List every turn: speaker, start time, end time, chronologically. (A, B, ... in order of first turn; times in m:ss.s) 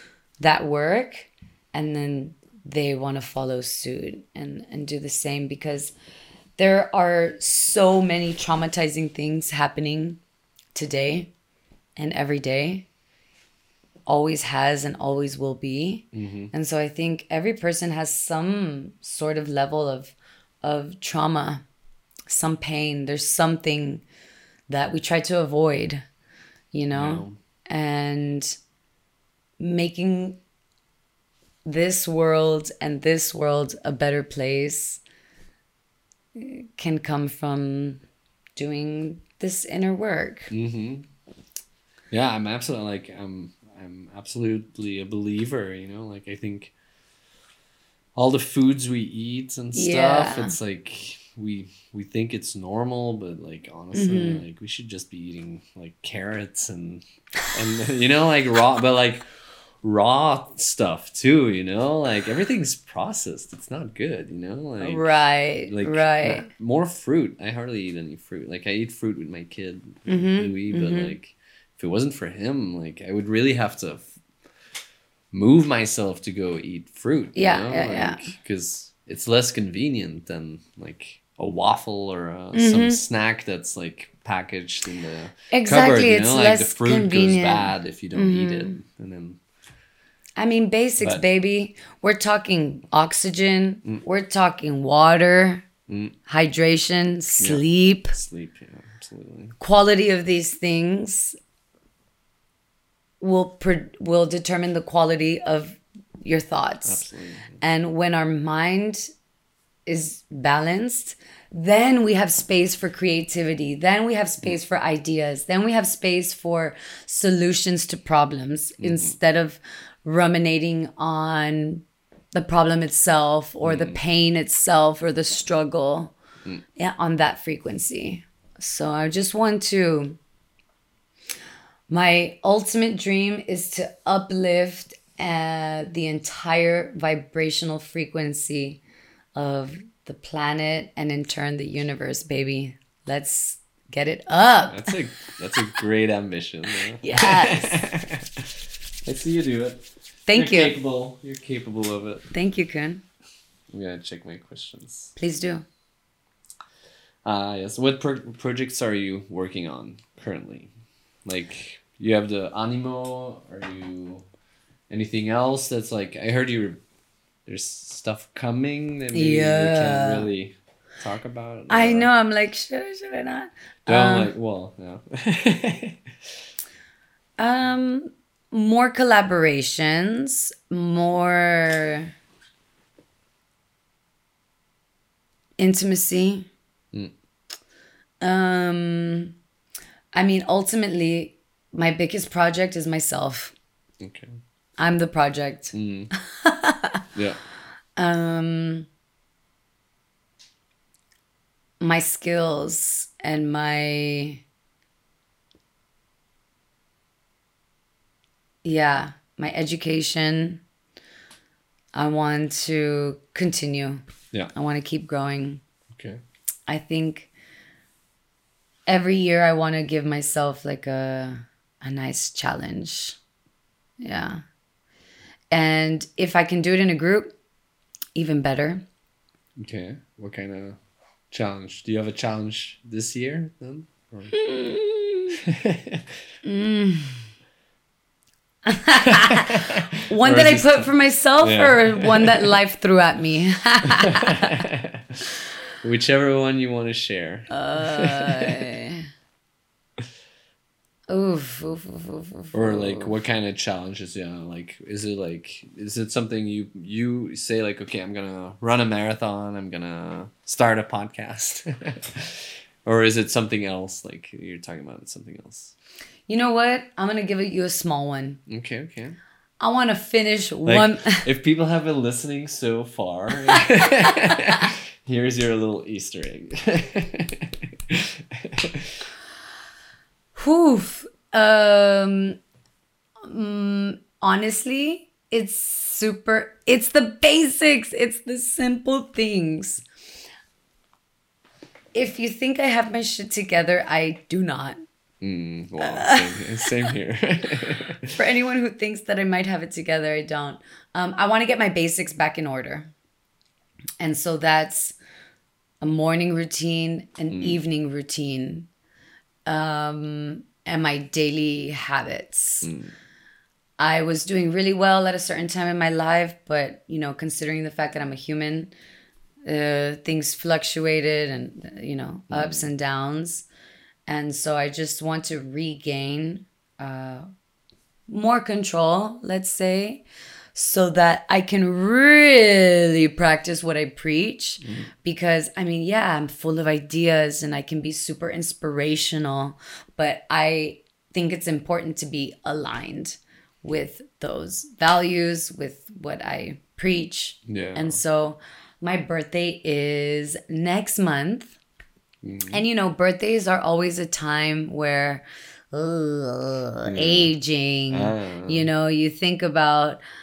0:00.4-0:05.9 A
0:06.6-0:10.2 A
0:10.7-0:11.3 A
0:12.0-0:12.9 A
0:14.0-0:21.6 A
0:16.1-0:16.5 B
0:22.3-0:24.0 A
0:24.7-0:26.0 A
0:26.7-0:28.6 A
0:26.9-0:27.4 B
0:29.6-0:30.4 A
0:31.6-0:35.0 A
0:36.3-0:38.0 A
0:38.6-0:40.5 A
0:40.5-0:41.1 B
0:42.1-0:46.7 B
0:48.1-0:59.3 B
0:49.7-0:50.6 A
0:53.9-0:54.4 A
0:59.8-1:05.1 B
1:04.8-1:06.5 A
1:05.6-1:14.1 B
1:10.1-1:11.2 A
1:15.3-1:29.4 B
1:17.3-1:18.3 A
1:22.5-1:23.0 A
1:25.5-1:28.8 A
1:30.4-1:35.6 A
1:35.9-1:36.2 B
1:36.3-1:38.1 A
1:37.4-1:39.6 B
1:39.6-1:41.4 A
1:43.2-1:47.0 A
1:46.8-1:47.6 B
1:47.6-1:49.0 A
1:49.8-2:06.1 A
1:58.8-1:59.1 B
2:03.6-2:04.0 B
2:06.8-2:10.2 A
2:11.9-2:18.8 A
2:19.3-2:24.9 A
2:24.7-2:32.3 B
2:27.0-2:27.9 A
2:30.3-2:30.7 A
2:32.3-2:33.0 A
2:33.7-2:35.1 B
2:35.2-2:35.6 A
2:37.2-2:40.7 B
2:41.2-2:44.2 B
2:44.9-2:46.8 B
2:47.4-2:52.1 B
2:49.1-2:50.3 A
2:51.7-2:54.3 A
2:53.8-2:56.0 B
2:57.4-3:02.1 A
3:05.6-3:06.5 A
3:08.2-3:09.3 A
3:10.1-3:13.5 A
3:14.0-3:14.4 B
3:14.8-3:17.0 A
3:15.7-3:16.1 B
3:17.1-3:17.4 B
3:18.0-3:18.9 A
3:21.8-3:24.4 A
3:28.6-3:30.6 A
3:31.9-3:34.0 A
3:34.5-3:35.6 A
3:35.9-3:36.2 B
3:36.7-3:37.3 A
3:38.9-3:43.2 A
3:44.0-3:44.4 A
3:45.5-3:47.3 A
3:48.2-3:48.8 A
3:49.6-3:50.8 B
3:51.3-3:54.4 B
3:54.3-3:55.4 A
3:55.4-3:56.2 B
3:56.4-3:57.3 A
3:58.6-4:04.6 A
3:58.9-4:02.5 B
4:03.9-4:05.3 B
4:05.8-4:08.7 B
4:07.5-4:09.0 A
4:11.1-4:13.1 A
4:12.5-4:25.7 B
4:26.3-4:28.4 A
4:28.5-4:29.2 B
4:29.6-4:31.2 A
4:30.6-4:39.1 B
4:33.5-4:34.6 A
4:40.3-4:42.4 A
4:43.2-4:49.8 A
4:51.9-4:54.8 A
4:55.2-4:58.2 B
4:55.8-4:56.9 A
4:58.2-5:02.9 A
5:04.0-5:05.0 A
5:05.8-5:08.7 A
5:07.3-5:07.6 B
5:09.4-5:12.7 A
5:12.6-5:12.9 B
5:13.8-5:18.7 A
5:19.4-5:23.4 A
5:22.3-5:22.7 B
5:24.0-5:27.3 A
5:28.1-5:30.0 A
5:30.5-5:51.6 A
5:34.6-5:34.9 B
5:47.4-5:48.0 B
5:52.2-5:52.6 B
5:52.5-6:00.0 A
5:56.8-5:57.3 B
5:57.9-5:58.7 B